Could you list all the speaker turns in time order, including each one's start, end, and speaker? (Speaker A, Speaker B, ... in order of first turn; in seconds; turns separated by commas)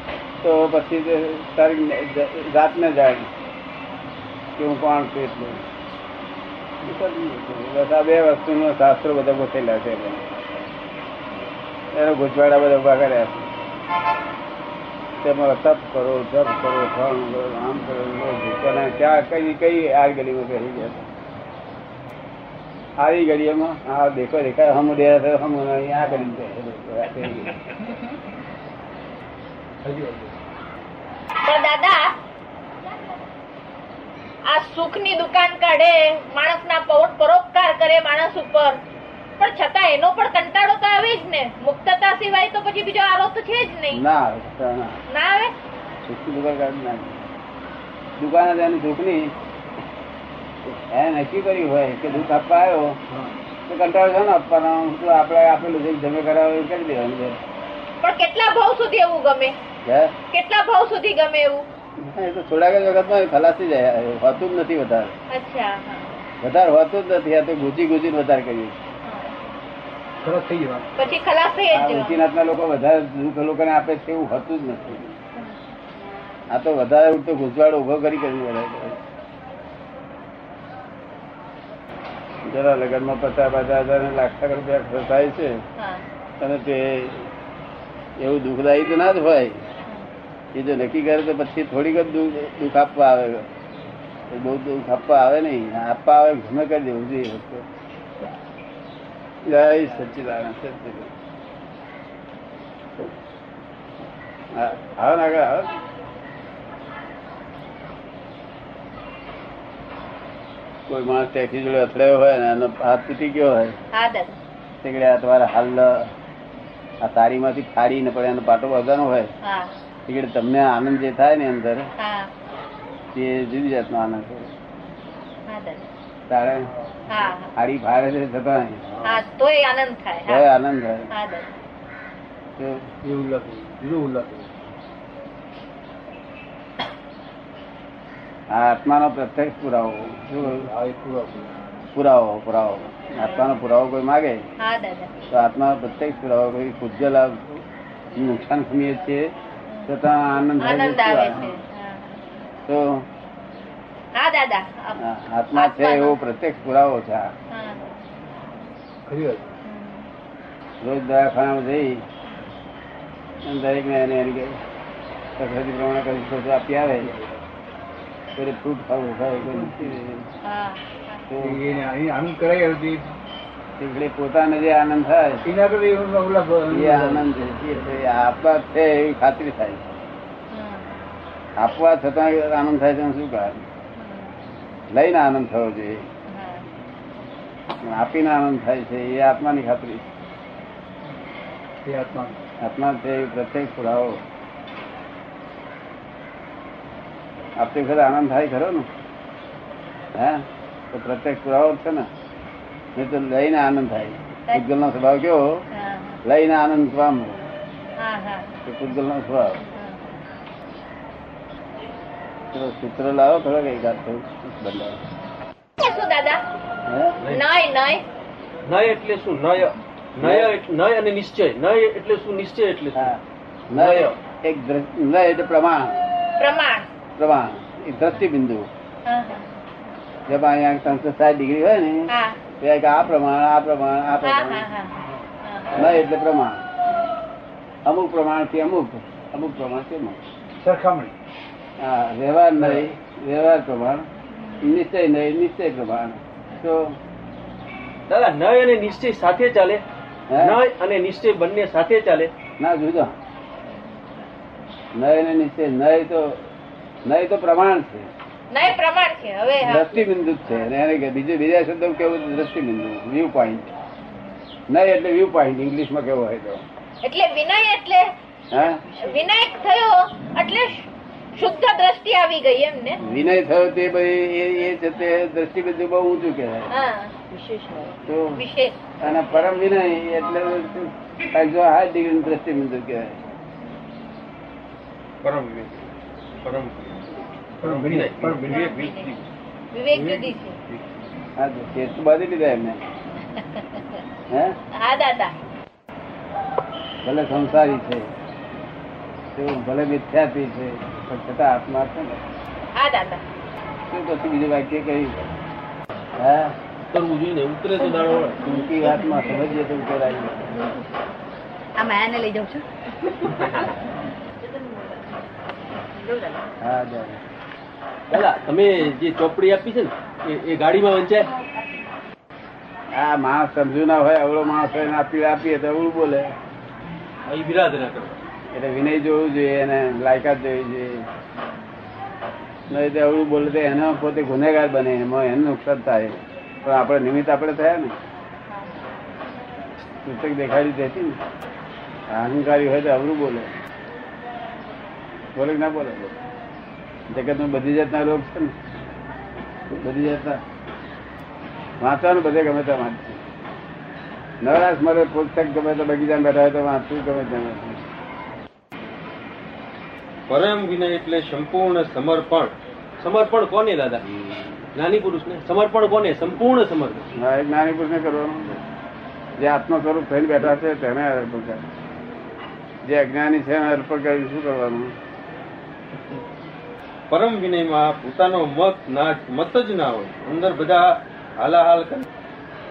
Speaker A: 0.4-3.3, Speaker A: 4.6-5.6, Speaker A: 6.8-10.3, Speaker A: 11.9-13.5, Speaker A: 15.2-21.1, Speaker A: 23.0-27.7, Speaker B: 26.0-26.4, Speaker B: 29.8-30.4, Speaker C: 31.4-32.1, Speaker C: 34.5-38.8, Speaker C: 39.4-44.0, Speaker A: 43.9-45.0, Speaker C: 45.1-45.5, Speaker A: 46.0-47.2, Speaker A: 48.2-49.3, Speaker A: 50.9-53.0, Speaker A: 53.7-57.4, Speaker C: 58.0-59.6, Speaker A: 59.9-60.1, Speaker C: 60.3-61.6, Speaker A: 62.0-65.1, Speaker C: 65.3-66.1, Speaker A: 66.4-68.8, Speaker C: 69.0-69.3, Speaker B: 70.2-70.9, Speaker C: 71.0-72.2, Speaker A: 71.7-75.1, Speaker A: 76.5-79.0, Speaker A: 82.5-85.6, Speaker C: 85.8-86.0, Speaker A: 86.4-87.3, Speaker A: 88.2-89.6, Speaker A: 90.5-93.5, Speaker A: 94.3-97.7, Speaker A: 99.5-101.1, Speaker A: 104.5-105.7, Speaker A: 110.9-113.8, Speaker C: 113.9-114.3, Speaker A: 114.8-116.1, Speaker A: 117.0-119.3, Speaker C: 119.4-119.8, Speaker A: 120.1-121.8, Speaker C: 122.0-122.3, Speaker A: 123.2-124.5, Speaker C: 125.5-125.9, Speaker A: 126.3-126.7, Speaker B: 126.8-127.1, Speaker C: 127.1-127.5, Speaker A: 127.5-128.8, Speaker B: 128.9-129.2, Speaker C: 129.0-130.5, Speaker A: 130.3-131.1, Speaker C: 131.1-131.5, Speaker A: 132.6-132.8, Speaker B: 133.0-134.7, Speaker A: 138.5-140.7, Speaker B: 140.4-141.6, Speaker A: 141.9-144.4, Speaker C: 143.2-143.6, Speaker C: 144.6-145.1, Speaker A: 145.3-147.6, Speaker A: 148.2-149.3, Speaker C: 149.7-150.0, Speaker A: 149.9-151.5, Speaker C: 150.6-152.2, Speaker A: 152.7-153.0, Speaker C: 154.2-155.0, Speaker A: 155.0-157.3, Speaker C: 155.6-156.2, Speaker C: 157.5-158.0, Speaker B: 159.1-159.5, Speaker C: 159.7-160.1, Speaker A: 160.8-162.0, Speaker A: 163.5-164.6, Speaker A: 165.4-167.1, Speaker B: 167.0-167.4, Speaker A: 168.4-170.2, Speaker B: 169.4-169.9, Speaker C: 170.4-171.2, Speaker A: 171.3-171.6, Speaker B: 171.4-173.1, Speaker A: 173.8-175.4, Speaker B: 175.4-177.3, Speaker A: 176.7-179.8, Speaker C: 180.5-181.0, Speaker A: 181.6-183.6, Speaker C: 184.0-184.4, Speaker A: 184.9-186.0, Speaker C: 186.3-186.7, Speaker A: 187.8-190.1, Speaker B: 191.8-192.3, Speaker A: 192.6-194.2, Speaker A: 197.6-198.9, Speaker A: 200.2-202.1, Speaker A: 203.0-205.6, Speaker C: 205.7-206.2, Speaker A: 206.2-207.5, Speaker C: 208.0-208.5, Speaker A: 208.7-209.6, Speaker C: 209.8-210.0, Speaker A: 212.5-215.0, Speaker C: 215.8-216.4, Speaker A: 216.9-217.2, Speaker C: 217.3-218.0, Speaker D: 218.7-223.1, Speaker A: 220.2-220.5, Speaker A: 223.0-226.1, Speaker D: 223.7-224.1, Speaker C: 226.4-226.9, Speaker A: 227.2-228.7, Speaker C: 229.1-229.5, Speaker A: 230.3-232.0, Speaker C: 232.1-232.4, Speaker A: 232.6-234.7, Speaker C: 234.2-235.9, Speaker A: 235.8-236.6, Speaker A: 237.9-240.2, Speaker B: 240.6-241.1, Speaker A: 241.8-244.1, Speaker B: 242.6-242.8, Speaker C: 244.3-244.7, Speaker A: 244.6-246.9, Speaker D: 248.1-249.8, Speaker A: 250.3-250.6, Speaker D: 250.4-252.3, Speaker A: 252.6-253.2, Speaker A: 255.0-256.5, Speaker A: 257.1-258.1, Speaker C: 258.5-260.0, Speaker A: 259.6-263.7, Speaker A: 264.7-266.6, Speaker C: 267.0-268.1, Speaker A: 268.5-268.8, Speaker C: 269.0-273.0, Speaker A: 273.0-276.7, Speaker C: 276.7-277.1, Speaker E: 277.3-277.9, Speaker A: 278.1-278.4, Speaker C: 278.4-278.8, Speaker A: 279.0-283.2, Speaker D: 285.2-289.2, Speaker B: 287.6-288.7, Speaker C: 288.5-289.1, Speaker C: 289.7-290.6, Speaker A: 291.4-292.8, Speaker C: 293.4-294.0, Speaker A: 294.3-294.6, Speaker C: 294.8-295.3, Speaker A: 297.1-298.1, Speaker A: 299.4-302.2, Speaker C: 302.8-303.2, Speaker A: 303.9-305.1, Speaker A: 306.2-306.6, Speaker D: 306.9-308.4, Speaker A: 308.4-310.6, Speaker E: 311.8-312.6, Speaker D: 313.3-313.6, Speaker E: 316.0-316.5, Speaker A: 316.6-317.2, Speaker D: 318.1-321.3, Speaker A: 323.0-326.3, Speaker D: 327.2-328.2, Speaker A: 328.5-331.1, Speaker A: 332.7-338.0, Speaker A: 340.1-341.2, Speaker A: 342.1-343.5, Speaker A: 345.4-346.1, Speaker A: 347.1-348.5, Speaker A: 349.7-350.4, Speaker A: 351.8-353.2, Speaker A: 354.4-357.8, Speaker D: 360.3-364.1, Speaker D: 364.8-367.1, Speaker A: 367.2-368.6, Speaker A: 369.4-371.6, Speaker A: 372.9-374.9, Speaker D: 377.1-382.1